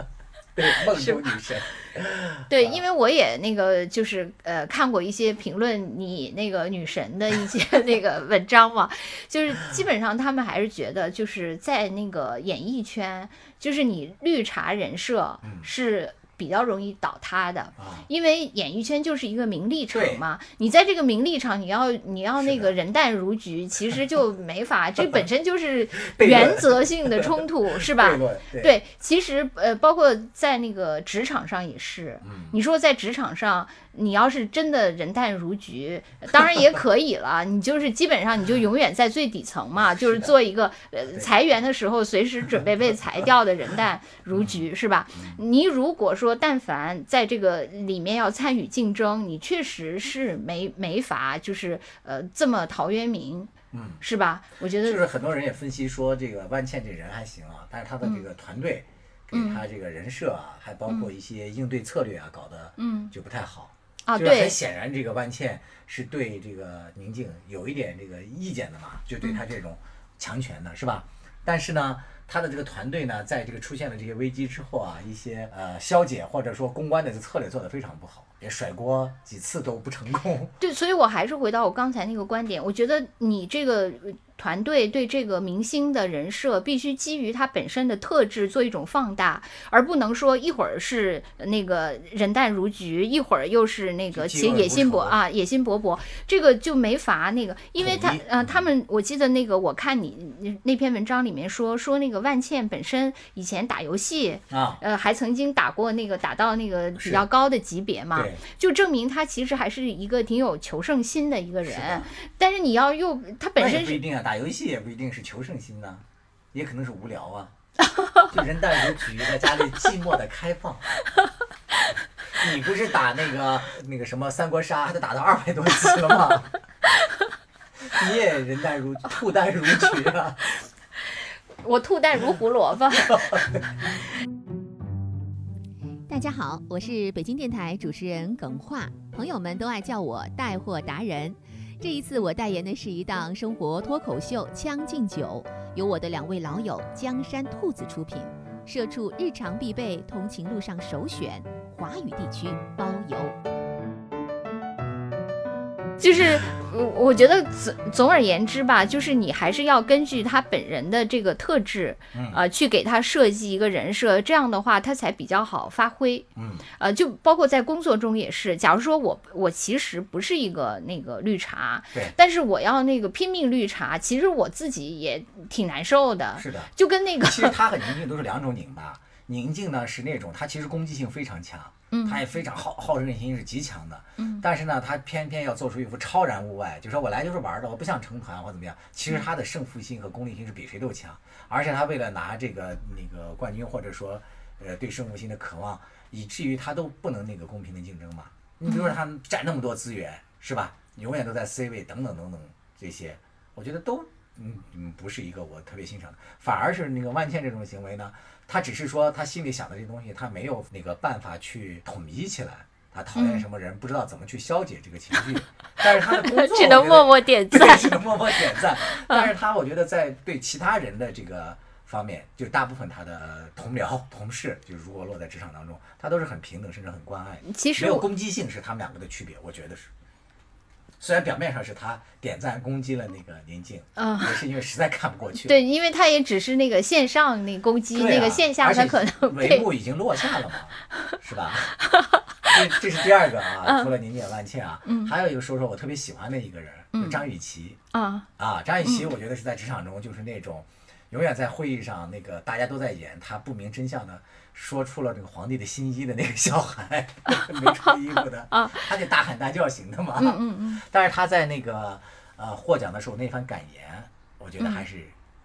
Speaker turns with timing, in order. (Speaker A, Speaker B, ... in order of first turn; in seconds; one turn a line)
Speaker A: 0.5-2.8
Speaker B: 0.9-1.2
Speaker B: 2.5-55.0
Speaker A: 15.4-15.7
Speaker A: 17.8-18.1
Speaker A: 19.9-20.2
Speaker A: 22.4-22.7
Speaker A: 26.0-28.8
Speaker A: 32.2-32.6
Speaker A: 39.9-40.3
Speaker A: 44.3-45.4
Speaker A: 53.7-54.0
Speaker A: 54.8-80.5
Speaker B: 59.3-59.6
Speaker B: 62.8-63.1
Speaker B: 64.0-64.6
Speaker B: 80.6-114.0
Speaker A: 94.1-95.2
Speaker A: 97.8-98.6
Speaker A: 104.5-104.8
Speaker A: 107.0-107.2
Speaker A: 108.1-108.4
Speaker A: 111.6-112.1
Speaker A: 113.6-117.5
Speaker A: 118.2-121.0
Speaker A: 122.3-126.6
Speaker A: 127.8-130.5
Speaker B: 131.6-133.5
Speaker A: 133.0-133.7
Speaker C: 136.1-153.3
Speaker B: 156.0-177.6
Speaker A: 162.1-162.4
Speaker A: 166.3-166.7
Speaker A: 176.4-229.9
Speaker B: 181.9-182.2
Speaker B: 184.2-184.4
Speaker B: 198.7-198.9
Speaker B: 213.1-213.4
Speaker B: 215.8-218.4
Speaker B: 227.4-228.1
Speaker A: 231.0-235.6
Speaker B: 233.9-234.4
Speaker B: 235.4-239.7
Speaker A: 237.9-241.8
Speaker B: 241.9-242.2
Speaker A: 242.4-247.8
Speaker B: 243.6-243.9
Speaker B: 244.8-245.1
Speaker B: 246.9-247.2
Speaker B: 247.9-248.3
Speaker A: 248.4-265.1
Speaker B: 248.8-249.1
Speaker B: 257.5-258.8
Speaker B: 260.2-260.8